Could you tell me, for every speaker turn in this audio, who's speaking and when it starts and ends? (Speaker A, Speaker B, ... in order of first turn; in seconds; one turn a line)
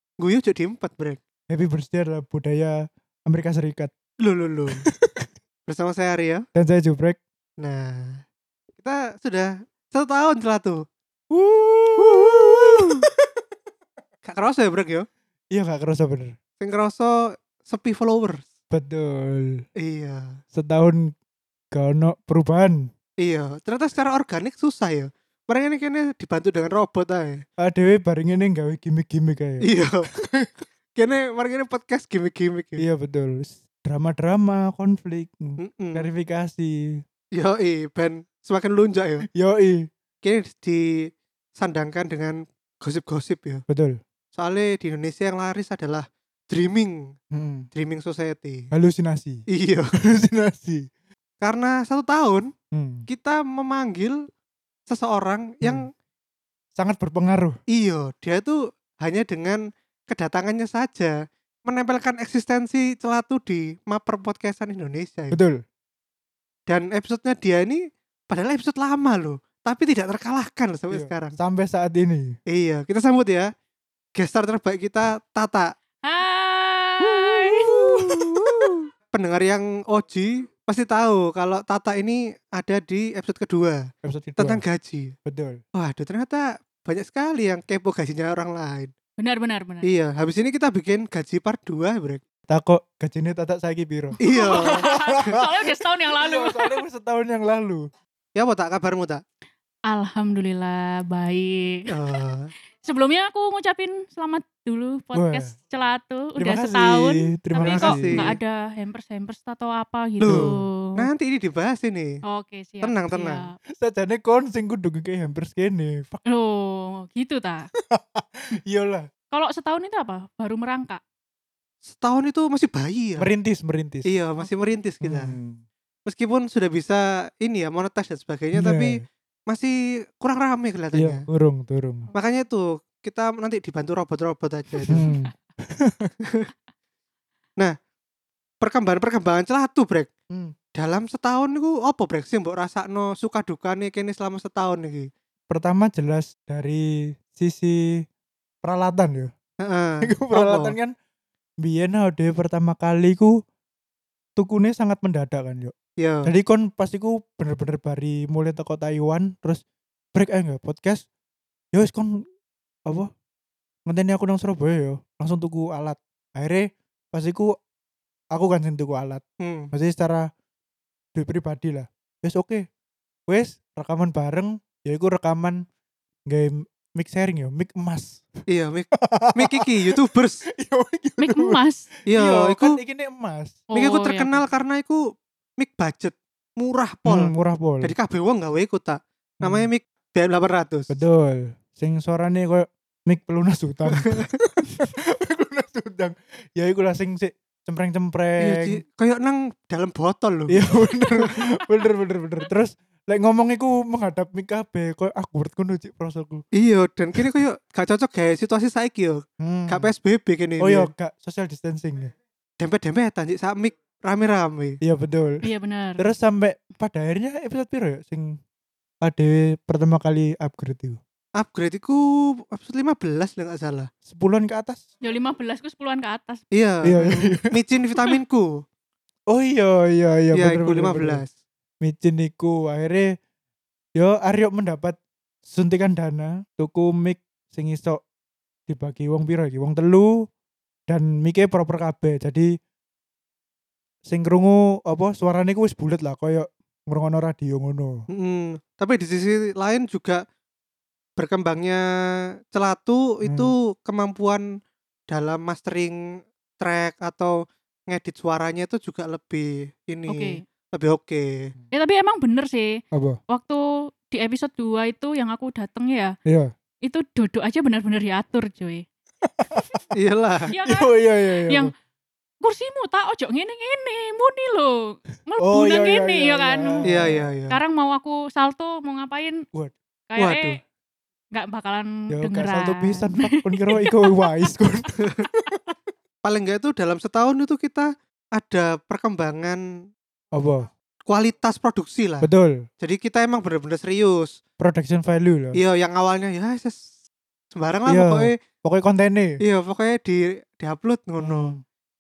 Speaker A: 0.2-1.2
Speaker B: 1.5-3.9
Speaker A: 4.2-4.9
Speaker B: 4.9-5.3
Speaker A: 5.7-6.5
Speaker B: 6.5-7.2
Speaker A: 7.6-8.2
Speaker A: 8.8-10.8
Speaker B: 11.3-13.3
Speaker A: 12.0-13.0
Speaker A: 14.2-15.1
Speaker B: 15.5-16.4
Speaker A: 16.6-18.5
Speaker B: 18.7-19.6
Speaker A: 19.8-20.4
Speaker B: 20.5-21.1
Speaker B: 21.7-22.9
Speaker A: 23.2-27.4
Speaker B: 27.6-30.5
Speaker A: 29.6-30.1
Speaker A: 30.9-32.9
Speaker B: 32.8-37.0
Speaker A: 35.6-36.1
Speaker A: 37.4-39.3
Speaker B: 39.3-39.9
Speaker A: 40.2-43.6
Speaker B: 43.7-44.0
Speaker A: 44.4-47.2
Speaker B: 47.3-47.7
Speaker A: 47.7-48.7
Speaker B: 48.7-50.9
Speaker A: 49.5-50.0
Speaker A: 51.4-52.5
Speaker B: 52.7-53.1
Speaker A: 53.1-54.2
Speaker A: 54.9-55.9
Speaker B: 56.8-57.6
Speaker A: 57.7-65.4
Speaker B: 65.3-65.6
Speaker A: 66.7-71.4
Speaker B: 70.9-72.4
Speaker A: 72.5-73.5
Speaker A: 74.2-75.7
Speaker C: 76.0-77.9
Speaker A: 77.1-85.2
Speaker B: 84.0-84.6
Speaker B: 85.2-85.6
Speaker A: 85.8-88.9
Speaker C: 89.2-89.9
Speaker A: 89.8-92.2
Speaker B: 92.5-97.9
Speaker A: 94.2-95.3
Speaker C: 94.3-96.8
Speaker A: 98.4-99.2
Speaker C: 99.9-101.9
Speaker A: 101.9-102.5
Speaker C: 102.8-111.1
Speaker B: 105.1-105.5
Speaker B: 106.4-108.4
Speaker A: 107.6-108.4
Speaker A: 110.2-112.2
Speaker B: 110.3-110.5
Speaker C: 112.3-113.6
Speaker A: 112.8-113.4
Speaker B: 113.8-116.2
Speaker C: 116.3-117.7
Speaker B: 117.9-119.1
Speaker C: 119.3-121.0
Speaker A: 121.9-123.3
Speaker B: 123.2-124.1
Speaker A: 124.0-125.3
Speaker B: 125.0-125.6
Speaker A: 126.1-131.2
Speaker B: 128.6-129.1
Speaker B: 130.9-132.1
Speaker A: 132.1-135.1
Speaker B: 134.9-136.1
Speaker C: 134.9-135.3
Speaker A: 136.2-136.5
Speaker A: 138.6-140.1
Speaker A: 140.8-145.1
Speaker B: 145.5-148.0
Speaker B: 148.6-149.3
Speaker A: 149.6-150.8
Speaker B: 150.0-150.9
Speaker B: 151.6-153.3
Speaker B: 154.4-155.7
Speaker A: 156.0-156.3
Speaker B: 156.3-159.6
Speaker B: 160.2-161.1
Speaker B: 161.7-162.2
Speaker B: 163.9-167.5
Speaker B: 168.3-170.3
Speaker A: 169.4-169.7
Speaker B: 171.2-172.7
Speaker B: 173.3-175.7
Speaker B: 176.3-178.3
Speaker A: 178.5-180.4
Speaker B: 178.9-180.0
Speaker B: 180.6-183.6
Speaker C: 181.2-181.9
Speaker A: 182.1-182.8
Speaker C: 183.7-184.4
Speaker A: 183.8-185.0
Speaker A: 185.6-191.0
Speaker B: 187.1-187.9
Speaker B: 189.4-189.7
Speaker B: 190.9-198.8
Speaker A: 193.9-194.2
Speaker A: 198.4-201.3
Speaker B: 200.5-206.4
Speaker A: 206.5-210.9
Speaker B: 209.4-209.9
Speaker B: 210.6-212.1
Speaker A: 212.6-214.8
Speaker B: 214.8-215.5
Speaker C: 215.4-216.0
Speaker B: 216.0-218.4
Speaker B: 219.0-221.0
Speaker A: 221.4-223.9
Speaker B: 224.1-224.8
Speaker C: 225.0-226.4
Speaker A: 226.5-228.5
Speaker B: 226.8-227.5
Speaker B: 229.3-231.2
Speaker A: 230.3-231.3
Speaker B: 231.8-233.2
Speaker B: 234.0-238.0
Speaker B: 238.7-240.3
Speaker B: 240.9-242.5
Speaker B: 244.1-248.1
Speaker A: 248.1-250.2
Speaker A: 251.2-254.4
Speaker B: 253.2-253.5
Speaker A: 255.1-256.0
Speaker A: 256.6-257.4
Speaker A: 257.9-261.5
Speaker C: 260.1-260.4
Speaker C: 261.7-266.1
Speaker B: 262.9-263.2
Speaker C: 266.8-268.9
Speaker B: 269.2-269.8
Speaker A: 269.9-270.5
Speaker C: 270.5-270.9
Speaker B: 270.6-271.7
Speaker C: 271.5-271.7
Speaker C: 272.4-276.9
Speaker B: 275.4-277.3
Speaker A: 276.9-277.6
Speaker C: 277.5-279.4
Speaker C: 280.1-280.6
Speaker A: 280.2-280.6
Speaker C: 281.3-284.5
Speaker B: 282.1-285.6
Speaker A: 286.2-289.6
Speaker B: 290.3-290.7
Speaker A: 291.1-292.3
Speaker B: 292.2-292.7
Speaker A: 292.8-294.4
Speaker B: 294.6-295.6
Speaker A: 295.5-296.8
Speaker A: 297.5-298.4
Speaker B: 297.9-299.4
Speaker A: 299.4-301.6
Speaker B: 301.2-301.6